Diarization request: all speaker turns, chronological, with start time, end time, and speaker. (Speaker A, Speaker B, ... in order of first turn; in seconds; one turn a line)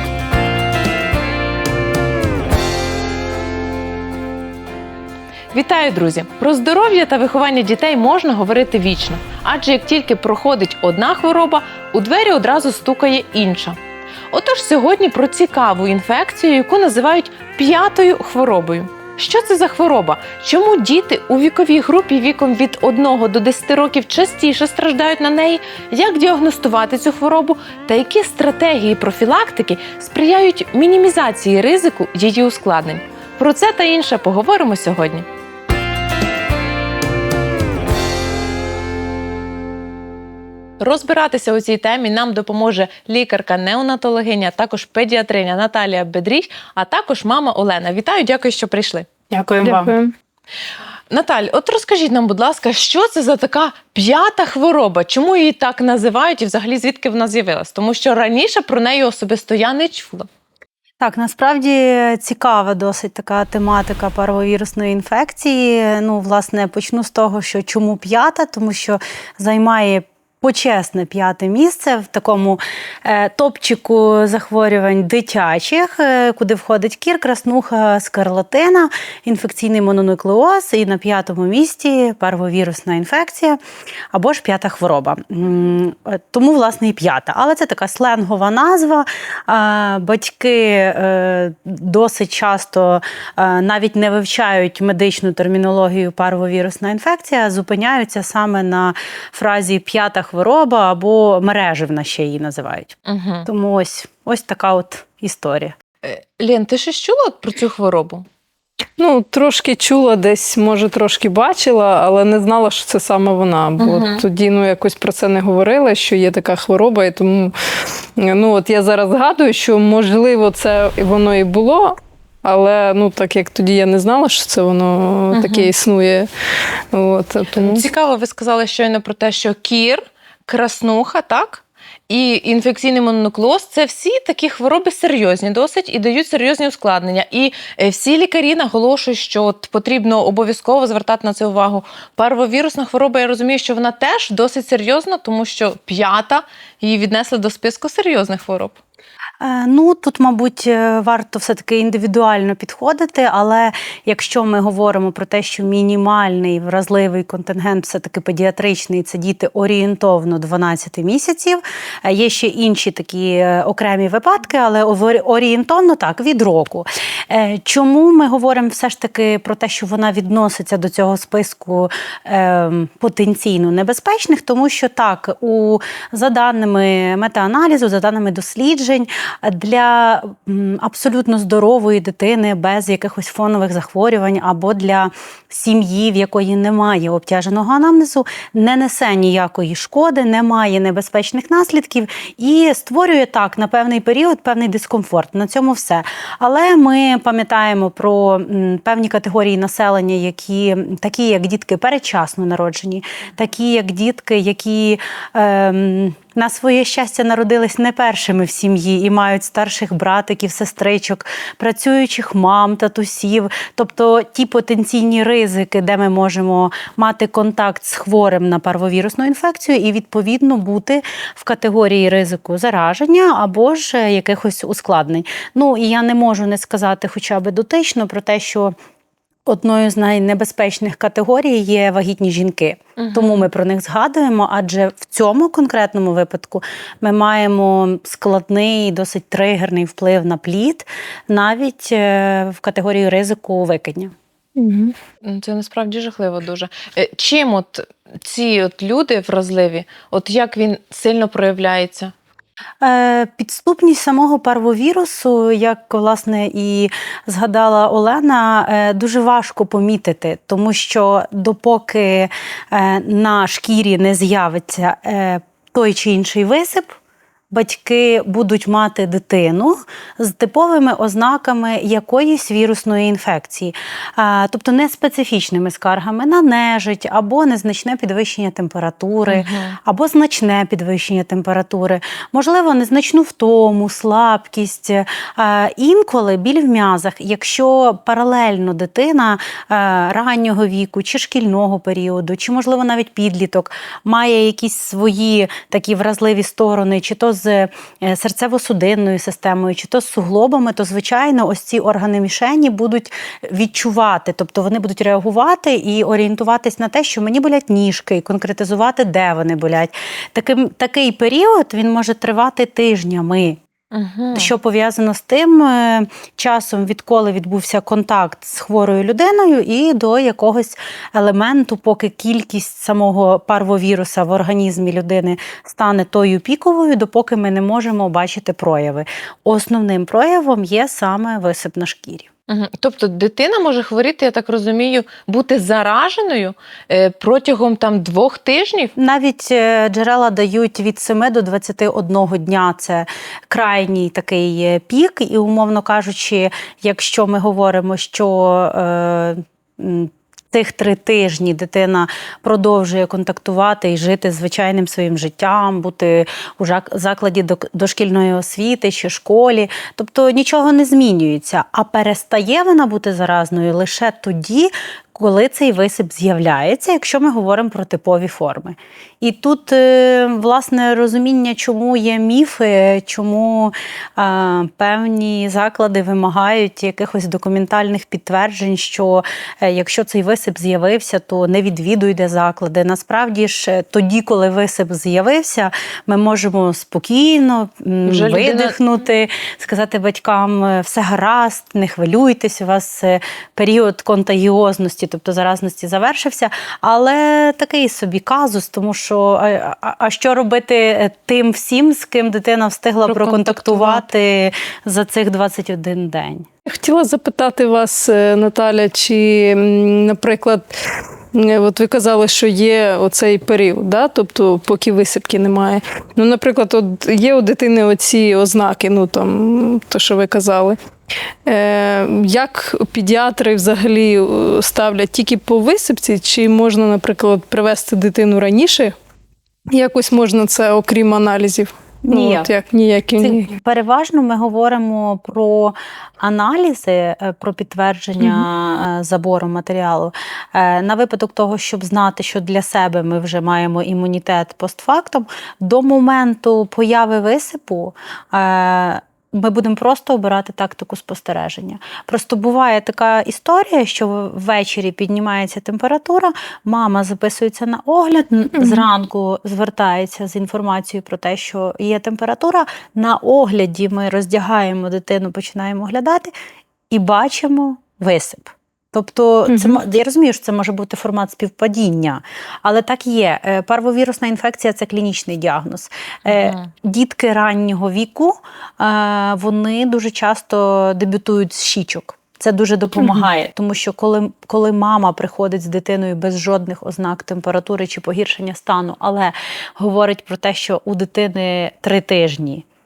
Speaker A: 5.5-13.8
Speaker A: 14.3-35.3
Speaker A: 40.8-49.1
Speaker B: 49.3-49.9
Speaker C: 49.6-50.1
Speaker A: 51.1-60.3
Speaker B: 61.0-83.6
Speaker B: 84.1-105.7
Speaker A: 103.0-103.5
Speaker A: 106.0-108.2
Speaker C: 109.0-126.3
Speaker A: 113.8-114.2
Speaker A: 125.3-125.7
Speaker C: 126.9-127.8
Speaker A: 127.5-148.8
Speaker B: 149.4-228.7
Speaker B: 229.4-244.1
Speaker A: 233.0-233.5
Speaker C: 244.6-244.9
Speaker A: 245.2-252.1
Speaker B: 252.8-266.9
Speaker B: 267.5-313.6
Speaker A: 279.3-279.8
Speaker A: 313.9-314.5
Speaker B: 314.3-332.3
Speaker A: 332.5-338.9
Speaker B: 338.9-406.5
Speaker A: 388.0-388.8
Speaker A: 403.1-404.0
Speaker C: 406.6-420.8
Speaker C: 421.4-428.9
Speaker C: 429.7-433.5
Speaker B: 432.0-432.5
Speaker B: 433.2-466.3
Speaker C: 438.2-438.4
Speaker C: 458.6-458.8
Speaker B: 466.9-492.6
Speaker C: 469.5-469.8
Speaker A: 476.3-476.7